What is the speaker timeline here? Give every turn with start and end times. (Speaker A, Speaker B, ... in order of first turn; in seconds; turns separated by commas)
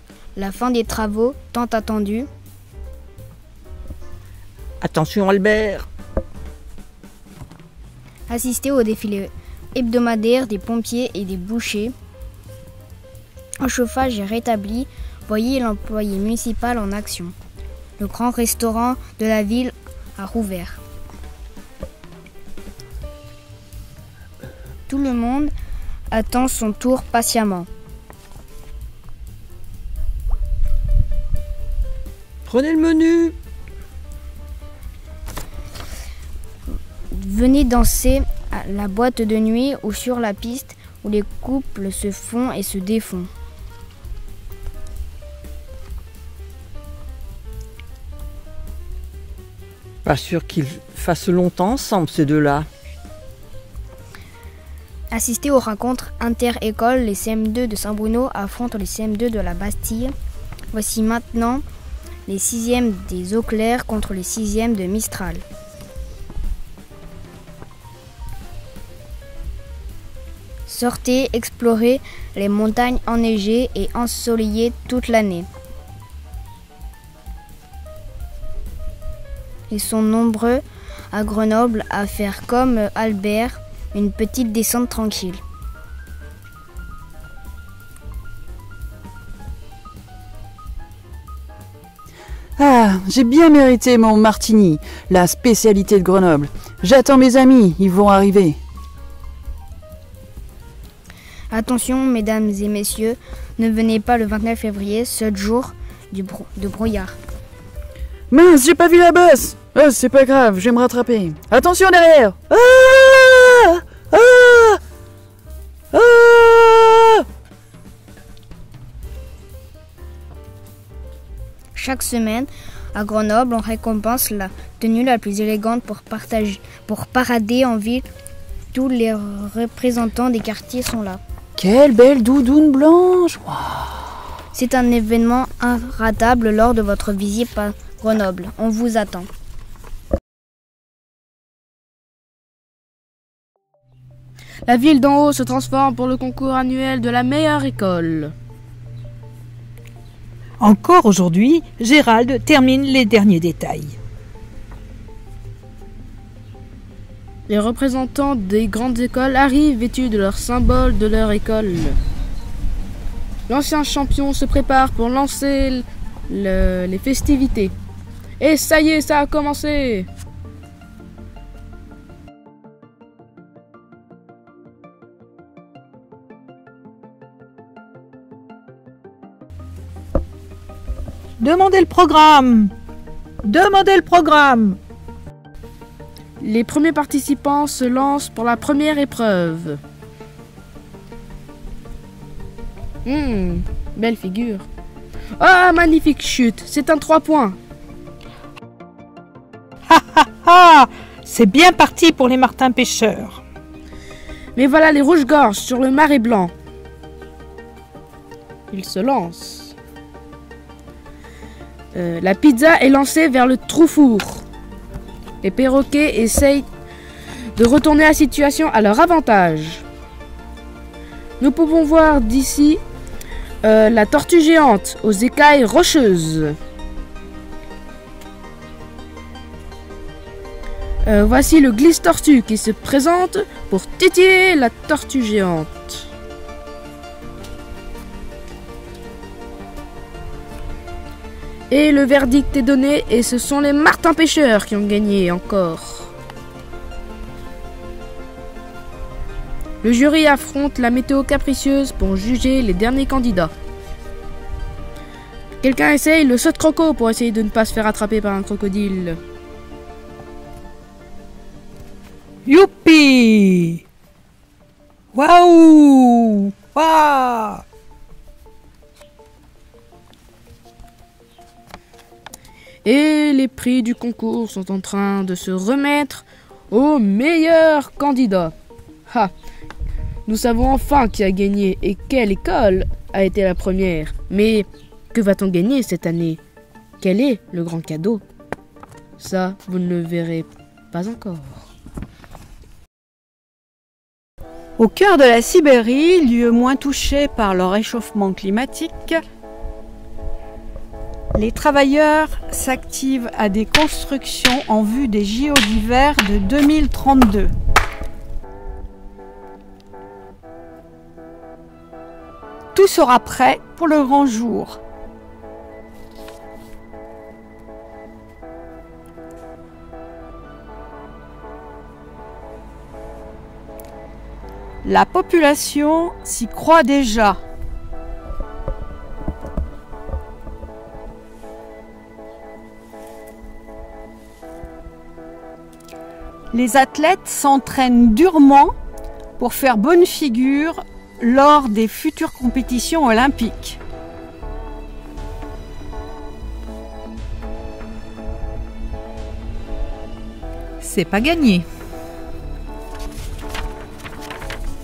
Speaker A: 0.3-2.3, Speaker B: 4.8-5.8, Speaker A: 8.3-11.9, Speaker A: 13.6-17.3, Speaker A: 18.0-20.8, Speaker A: 24.9-25.5, Speaker A: 26.1-27.7, Speaker B: 32.5-33.3, Speaker A: 37.1-43.3, Speaker B: 50.0-52.7, Speaker A: 55.1-60.1, Speaker A: 60.7-61.6, Speaker A: 62.3-65.4, Speaker A: 70.7-75.5, Speaker A: 79.7-85.4, Speaker C: 92.6-98.6, Speaker A: 101.5-107.2, Speaker C: 108.3-114.8, Speaker C: 115.9-117.2, Speaker A: 121.7-128.1, Speaker A: 128.7-131.2, Speaker C: 131.6-133.9, Speaker A: 134.5-139.3, Speaker D: 144.7-148.3, Speaker E: 150.6-153.9, Speaker D: 157.5-162.0, Speaker D: 163.5-167.7, Speaker D: 168.4-170.1, Speaker E: 181.4-182.7, Speaker E: 183.4-184.8, Speaker D: 186.4-189.8, Speaker D: 193.0-194.7, Speaker D: 195.4-197.6, Speaker E: 199.9-203.4, Speaker D: 204.6-206.5, Speaker D: 208.7-209.7, Speaker D: 211.9-214.4, Speaker D: 215.4-216.7, Speaker D: 217.6-219.8, Speaker D: 221.4-222.8, Speaker D: 223.6-226.6, Speaker D: 231.0-236.1, Speaker D: 241.7-246.1, Speaker D: 249.8-253.5, Speaker D: 255.6-259.2, Speaker E: 262.4-263.8, Speaker E: 265.1-267.6, Speaker D: 272.8-278.5, Speaker D: 280.2-286.4, Speaker D: 287.0-288.2, Speaker D: 289.2-291.6, Speaker F: 294.8-299.2, Speaker F: 301.3-307.5, Speaker F: 312.7-314.8, Speaker F: 324.8-327.4, Speaker F: 336.5-338.7, Speaker F: 339.4-343.8, Speaker E: 350.8-351.6